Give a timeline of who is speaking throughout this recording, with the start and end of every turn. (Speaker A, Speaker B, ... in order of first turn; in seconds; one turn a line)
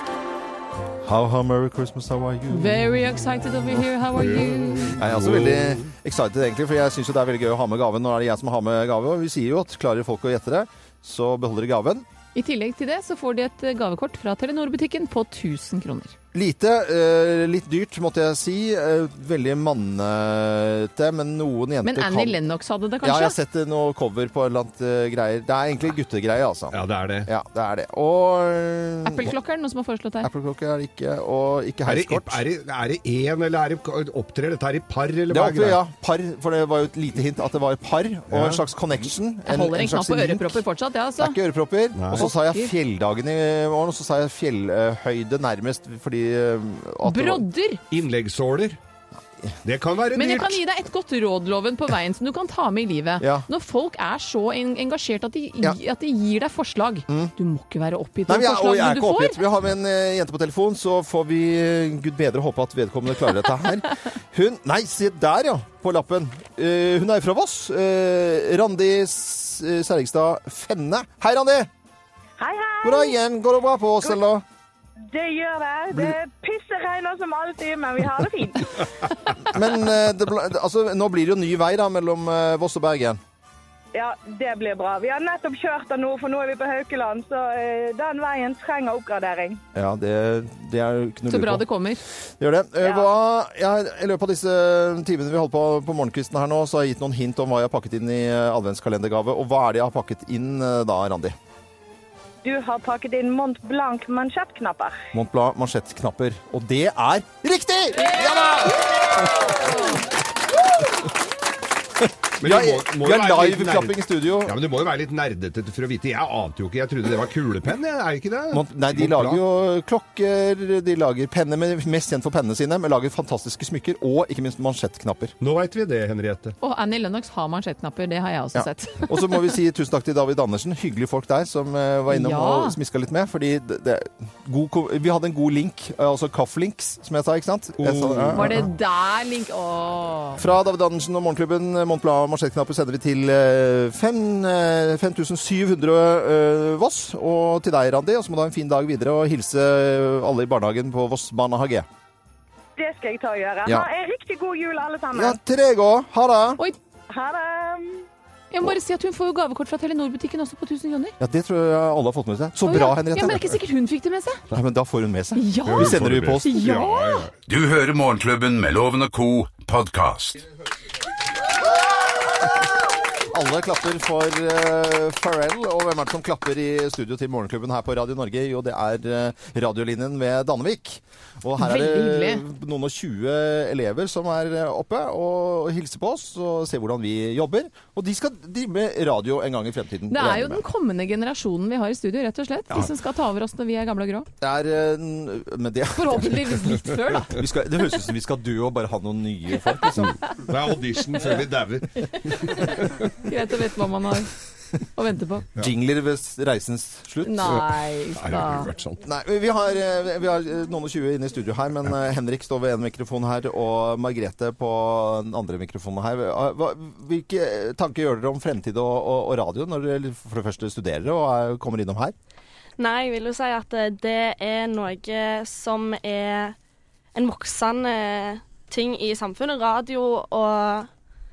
Speaker A: 1.0-2.8
Speaker B: 2.5-5.0
Speaker C: 4.2-5.9
Speaker A: 5.0-12.1
Speaker B: 12.3-16.1
Speaker A: 16.3-22.4
Speaker B: 21.8-23.4
Speaker A: 23.0-29.3
Speaker C: 26.7-27.3
Speaker B: 29.1-30.3
Speaker A: 30.2-32.4
Speaker C: 31.9-35.8
Speaker A: 35.3-40.6
Speaker C: 38.3-38.6
Speaker B: 39.5-41.4
Speaker A: 41.2-47.5
Speaker C: 42.0-42.3
Speaker B: 42.1-42.7
Speaker B: 47.0-47.8
Speaker C: 47.9-48.8
Speaker C: 49.6-50.6
Speaker B: 50.1-59.4
Speaker A: 53.2-53.5
Speaker A: 57.1-57.3
Speaker A: 58.3-71.7
Speaker D: 72.4-73.2
Speaker A: 72.8-74.5
Speaker D: 75.1-78.8
Speaker A: 79.5-83.2
Speaker D: 83.9-89.6
Speaker A: 89.7-91.7
Speaker B: 91.3-92.0
Speaker A: 92.4-101.4
Speaker D: 92.8-93.1
Speaker D: 102.4-105.0
Speaker A: 105.1-109.4
Speaker C: 112.4-119.4
Speaker A: 112.4-114.6
Speaker A: 118.5-125.3
Speaker C: 125.4-126.6
Speaker B: 126.6-129.4
Speaker A: 128.5-138.7
Speaker B: 132.1-132.8
Speaker C: 137.8-138.6
Speaker B: 138.3-140.4
Speaker A: 140.4-151.9
Speaker D: 152.8-155.4
Speaker A: 155.1-156.6
Speaker D: 157.1-158.1
Speaker B: 158.5-161.2
Speaker A: 161.2-163.5
Speaker B: 162.7-164.4
Speaker A: 164.5-166.5
Speaker B: 165.4-167.3
Speaker C: 165.7-167.3
Speaker E: 167.5-170.4
Speaker A: 173.2-190.6
Speaker B: 181.6-182.4
Speaker B: 190.1-194.3
Speaker A: 194.4-196.5
Speaker B: 195.9-197.3
Speaker A: 197.3-200.2
Speaker C: 200.1-203.1
Speaker B: 203.2-204.3
Speaker B: 205.0-205.5
Speaker A: 205.6-207.6
Speaker B: 207.2-208.7
Speaker C: 207.5-209.0
Speaker A: 209.0-222.2
Speaker F: 222.8-226.6
Speaker F: 227.1-230.9